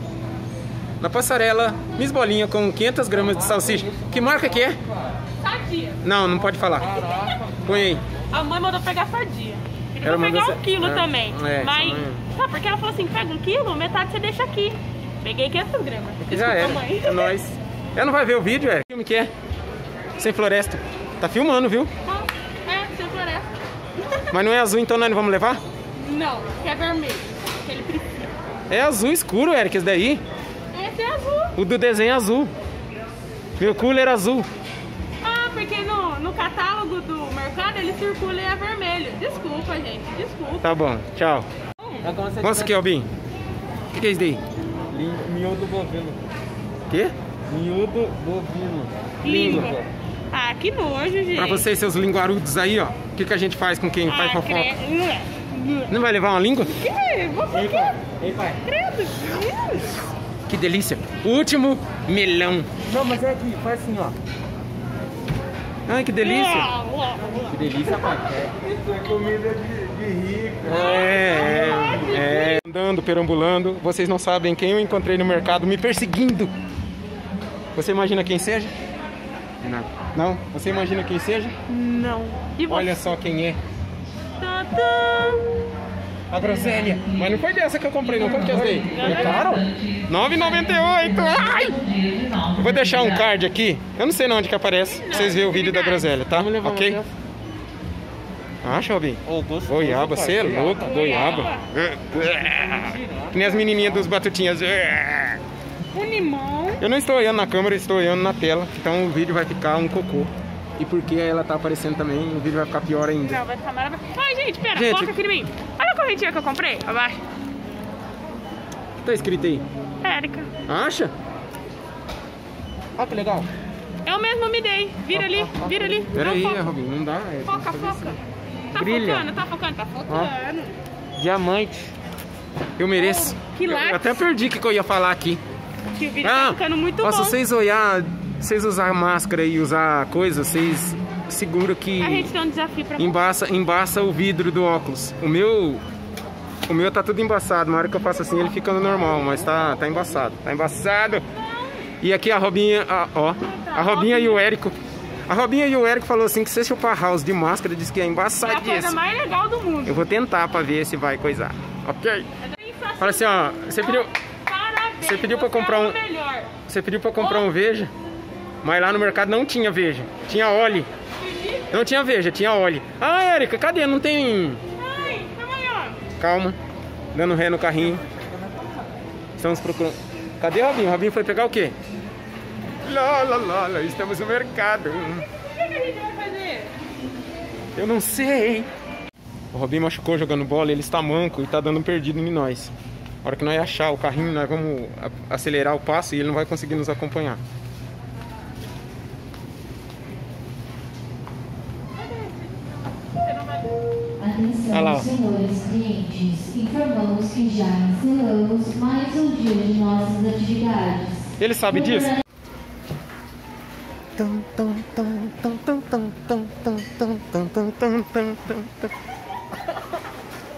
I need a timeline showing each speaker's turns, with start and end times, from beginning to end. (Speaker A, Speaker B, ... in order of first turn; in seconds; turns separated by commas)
Speaker A: 1.0-4.8, Speaker B: 3.3-5.1, Speaker C: 5.4-6.0, Speaker A: 6.0-7.0, Speaker B: 6.5-8.0, Speaker A: 7.6-8.0, Speaker C: 8.3-17.4, Speaker A: 10.0-12.2, Speaker A: 16.2-19.3, Speaker A: 20.2-21.9, Speaker C: 22.0-23.5, Speaker A: 24.3-25.6, Speaker C: 25.9-28.3, Speaker A: 28.7-30.2, Speaker C: 30.7-31.6, Speaker A: 31.6-32.5, Speaker A: 33.6-34.5, Speaker C: 35.2-40.6, Speaker A: 40.6-41.5, Speaker C: 41.8-42.1, Speaker B: 42.0-42.8, Speaker A: 42.4-43.1, Speaker A: 43.9-44.4, Speaker B: 44.9-46.2, Speaker A: 46.9-47.1, Speaker B: 47.5-49.9, Speaker C: 49.2-51.7, Speaker A: 49.2-49.7, Speaker A: 51.3-54.7, Speaker C: 54.1-55.9, Speaker A: 55.9-56.8, Speaker C: 56.7-58.0, Speaker B: 57.5-58.6, Speaker C: 58.6-60.0, Speaker A: 60.5-62.7, Speaker B: 62.9-64.2, Speaker A: 65.8-66.7, Speaker C: 66.2-68.0, Speaker B: 67.5-71.8, Speaker A: 67.5-68.2, Speaker A: 70.6-76.5, Speaker C: 70.7-72.6, Speaker A: 77.7-78.7, Speaker B: 79.6-79.9, Speaker A: 80.1-81.5, Speaker C: 81.7-83.0, Speaker A: 82.7-83.6, Speaker C: 84.4-85.5, Speaker A: 86.3-97.0, Speaker B: 86.3-87.0, Speaker B: 88.5-89.6, Speaker C: 88.9-89.7, Speaker C: 94.9-96.1, Speaker B: 96.3-97.1, Speaker A: 98.6-105.4, Speaker B: 99.2-101.5, Speaker C: 100.7-101.7, Speaker B: 102.8-103.8, Speaker C: 105.9-106.8, Speaker A: 106.8-113.4, Speaker C: 113.2-117.2, Speaker A: 114.7-115.1, Speaker A: 119.0-119.6, Speaker C: 120.0-120.5, Speaker A: 120.7-121.1, Speaker A: 123.0-123.5, Speaker C: 124.0-126.7, Speaker B: 125.1-126.0, Speaker A: 126.1-128.2, Speaker C: 127.4-130.8, Speaker A: 128.7-129.2, Speaker B: 131.2-131.9, Speaker A: 132.8-135.4, Speaker C: 132.9-134.2, Speaker C: 135.9-137.4, Speaker A: 136.2-142.3, Speaker C: 142.0-143.2, Speaker A: 143.0-145.8, Speaker A: 146.7-151.2, Speaker C: 151.3-151.9, Speaker A: 152.0-154.8, Speaker C: 153.4-154.5, Speaker A: 155.3-158.9, Speaker C: 158.4-160.0, Speaker A: 159.8-162.3, Speaker C: 162.4-166.5, Speaker A: 163.0-164.1, Speaker A: 165.0-166.0, Speaker A: 166.6-167.9, Speaker C: 167.2-167.5, Speaker A: 168.6-170.9, Speaker C: 170.6-171.9, Speaker A: 171.7-174.6, Speaker C: 174.8-176.0, Speaker A: 176.2-176.6, Speaker A: 177.1-178.0, Speaker A: 179.4-181.7, Speaker A: 182.8-185.2, Speaker C: 185.4-186.7, Speaker A: 187.8-188.7, Speaker A: 189.5-192.7, Speaker A: 193.2-197.4, Speaker C: 201.9-203.8, Speaker D: 204.2-212.2, Speaker A: 204.7-205.1, Speaker A: 211.4-212.2, Speaker A: 214.2-218.9